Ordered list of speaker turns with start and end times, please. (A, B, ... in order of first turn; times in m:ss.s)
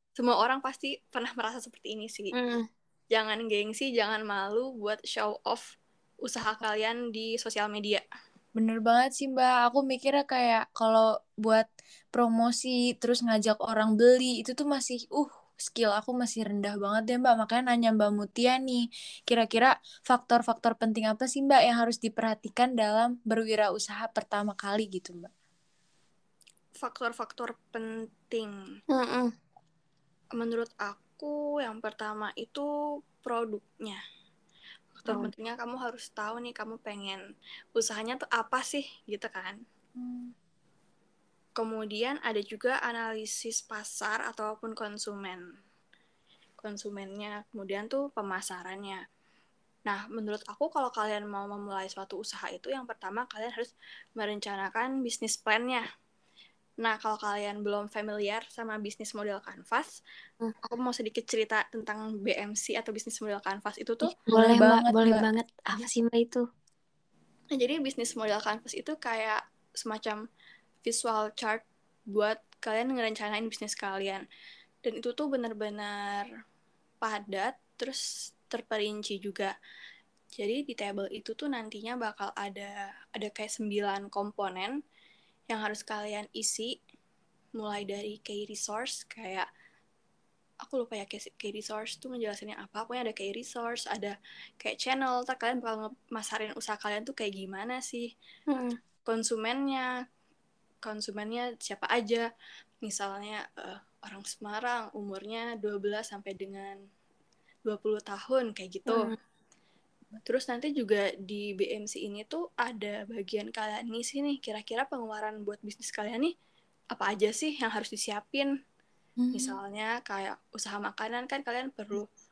0:00.2-0:02.3 A
0:02.3-0:02.6 B
0:03.1-0:05.7 A
0:06.2-0:08.0 A
0:08.6-0:25.3 C
0:26.8-0:28.5 A
0:28.9-0:29.3 B
0:30.4-0:32.7 A
0:33.2-0:34.0 A
0:34.9-0:37.2 A
0:37.7-0:39.6 A
0:40.0-0:40.3 C
0:41.6-0:45.4 A
0:46.6-0:49.0 A
0:49.9-0:55.8 A
0:56.8-1:00.0 A
1:00.6-1:04.1 A
1:04.3-1:06.4 B
1:04.3-1:05.3 C
1:07.5-1:10.2 A
1:10.8-1:14.2 A
1:14.8-1:16.3 A
1:17.0-1:19.5 A
1:20.4-1:24.7 A
1:25.5-1:26.7 A
1:27.6-1:29.5 A
1:30.6-1:38.1 A
1:38.5-1:38.7 B
1:39.1-1:39.9 A
1:40.8-1:42.2 A
1:42.8-1:46.8 A
1:47.7-1:49.1 A
1:48.9-1:49.2 B
1:50.2-1:56.3 A
1:56.9-1:58.5 A
1:59.2-1:59.6 C
1:59.3-2:02.0 A